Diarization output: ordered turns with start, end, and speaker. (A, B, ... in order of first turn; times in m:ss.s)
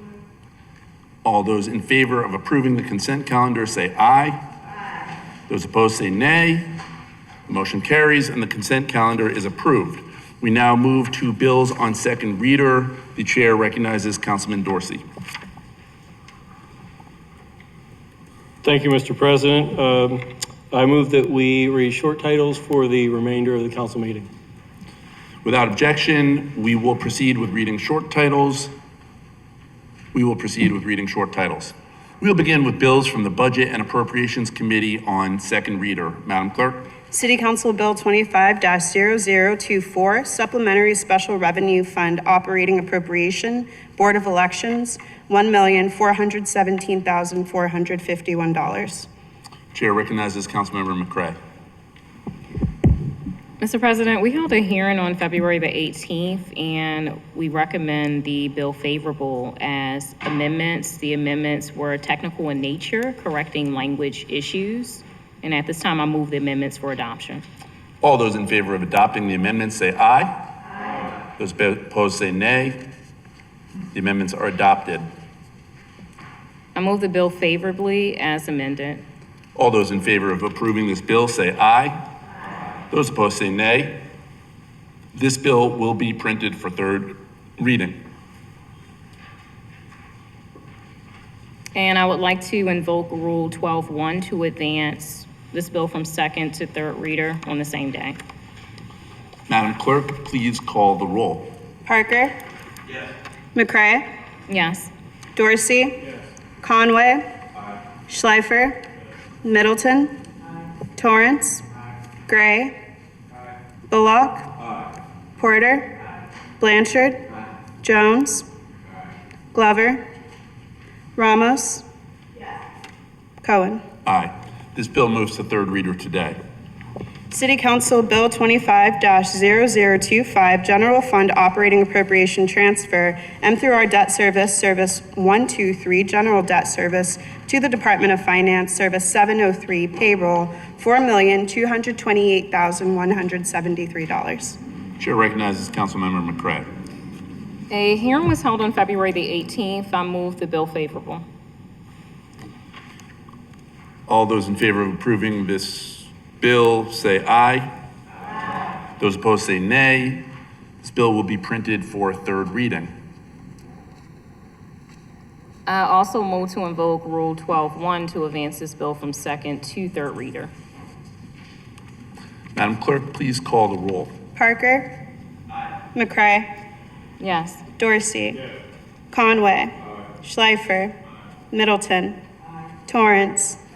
0:01.2-0:04.4 A
0:05.5-0:06.7 A
0:07.5-0:15.0 A
0:18.6-0:24.3 B
0:25.4-0:28.7 A
0:30.1-0:36.8 A
0:37.1-0:49.1 C
0:49.7-0:51.4 A
0:53.6-1:07.4 D
1:08.0-1:10.4 A
1:11.4-1:12.8 A
1:13.9-1:15.1 A
1:16.8-1:19.0 D
1:19.6-1:22.0 A
1:22.9-1:24.0 A
1:25.1-1:28.0 A
1:31.8-1:38.2 D
1:39.5-1:41.5 A
1:41.8-1:42.4 C
1:43.6-1:44.1 C
1:44.5-1:44.9 D
1:45.4-1:46.0 C
1:46.6-1:47.3 C
1:48.1-1:48.8 C
1:49.4-1:50.1 C
1:51.0-1:51.6 C
1:52.3-1:52.8 C
1:53.9-1:54.6 C
1:55.4-1:55.9 C
1:56.6-1:57.2 C
1:57.8-1:58.5 C
1:59.5-2:00.0 C
2:01.2-2:01.8 C
2:03.4-2:03.8 C
2:04.0-2:06.4 A
2:07.3-2:24.6 C
2:25.0-2:26.7 A
2:27.7-2:31.2 D
2:34.1-2:37.7 A
2:39.0-2:40.2 A
2:40.8-2:42.9 A
2:45.7-2:50.5 D
2:52.6-2:54.2 A
2:54.4-2:54.9 C
2:55.9-2:56.5 C
2:57.2-2:57.6 D
2:57.8-2:58.4 C
2:59.1-3:01.0 C
3:01.5-3:02.2 C
3:02.9-3:03.6 C